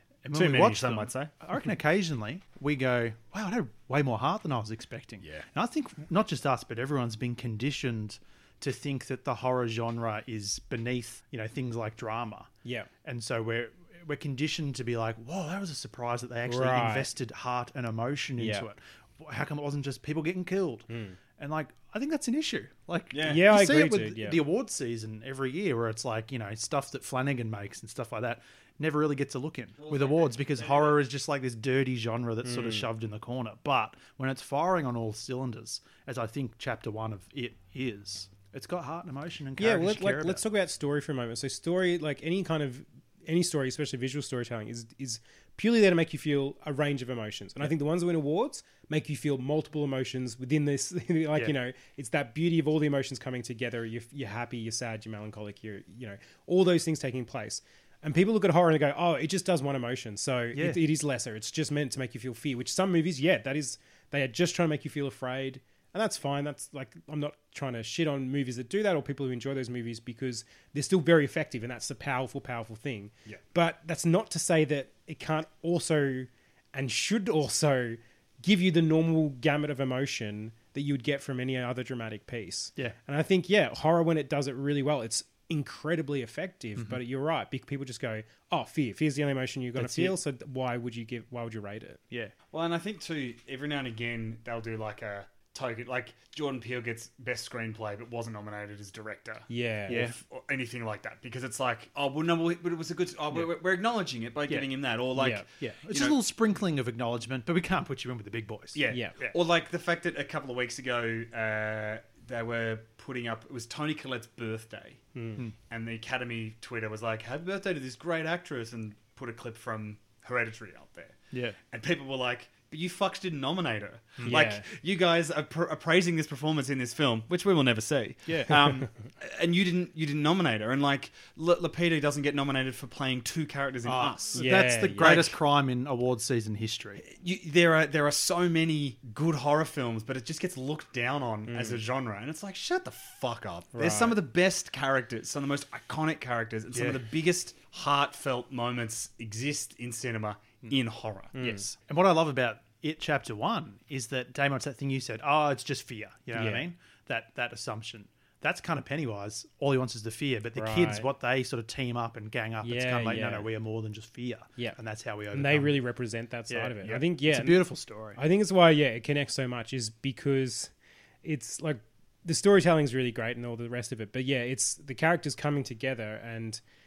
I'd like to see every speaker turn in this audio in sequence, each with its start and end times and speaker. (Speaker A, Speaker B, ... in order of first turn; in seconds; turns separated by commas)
Speaker A: 0.2-12.5, Speaker B: 0.3-1.3, Speaker A: 13.0-40.4, Speaker C: 16.5-17.1, Speaker C: 18.4-18.6, Speaker C: 20.9-21.2, Speaker B: 23.1-23.4, Speaker C: 23.2-24.4, Speaker B: 29.8-31.0, Speaker C: 32.4-32.9, Speaker C: 39.6-92.0, Speaker A: 60.5-60.8, Speaker A: 89.8-90.2, Speaker B: 92.5-106.2, Speaker C: 99.5-100.0, Speaker A: 99.9-100.1, Speaker A: 104.5-109.3, Speaker C: 105.2-105.4, Speaker B: 108.7-115.0, Speaker C: 108.9-109.1, Speaker C: 115.1-115.4, Speaker B: 115.7-121.2, Speaker A: 121.3-121.6, Speaker B: 121.7-135.4, Speaker C: 124.2-124.6, Speaker A: 128.3-128.6, Speaker A: 133.8-137.0, Speaker C: 134.3-135.2, Speaker B: 137.0-151.3, Speaker C: 141.5-141.8, Speaker C: 143.7-144.2, Speaker A: 146.7-147.0, Speaker C: 151.3-151.7, Speaker A: 151.4-165.7, Speaker C: 156.3-156.7, Speaker C: 160.5-161.1, Speaker C: 162.6-163.5, Speaker C: 165.3-170.7, Speaker A: 166.5-168.2, Speaker C: 171.2-176.6